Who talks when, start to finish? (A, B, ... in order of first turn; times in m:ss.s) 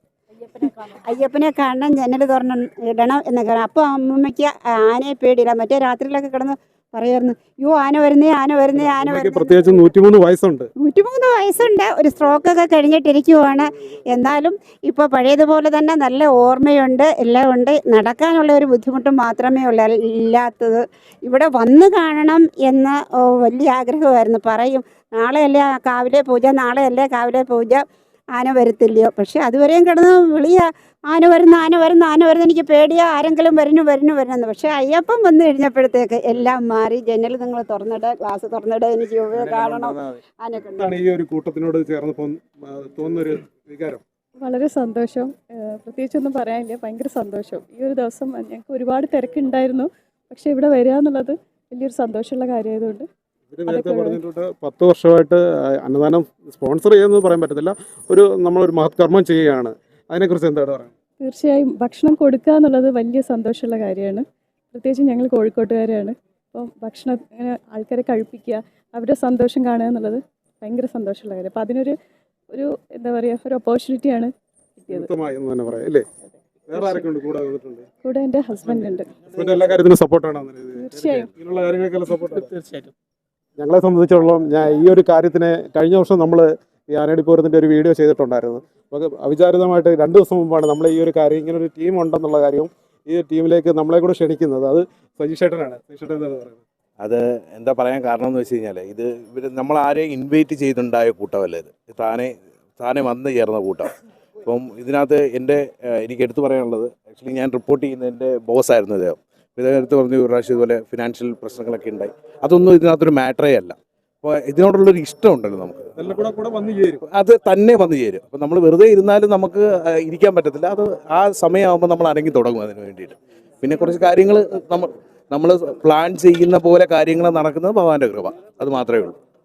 0:00.3-0:09.8 A
0:08.7-0:10.7 B
0:10.8-0:27.8 A
0:28.3-0:40.9 A
0:39.4-0:39.9 B
0:40.8-0:44.0 B
0:44.4-0:53.0 C
0:53.5-1:00.9 B
0:53.7-0:54.2 C
1:01.2-1:11.9 C
1:12.5-1:15.1 C
1:14.9-1:16.1 B
1:16.7-1:17.9 B
1:16.7-1:17.0 C
1:18.0-1:19.1 C
1:18.6-1:22.5 B
1:20.8-1:21.3 C
1:23.6-1:36.6 B
1:37.0-1:43.9 D
1:44.4-1:55.9 D
1:56.0-1:57.0 B
1:57.0-2:09.2 D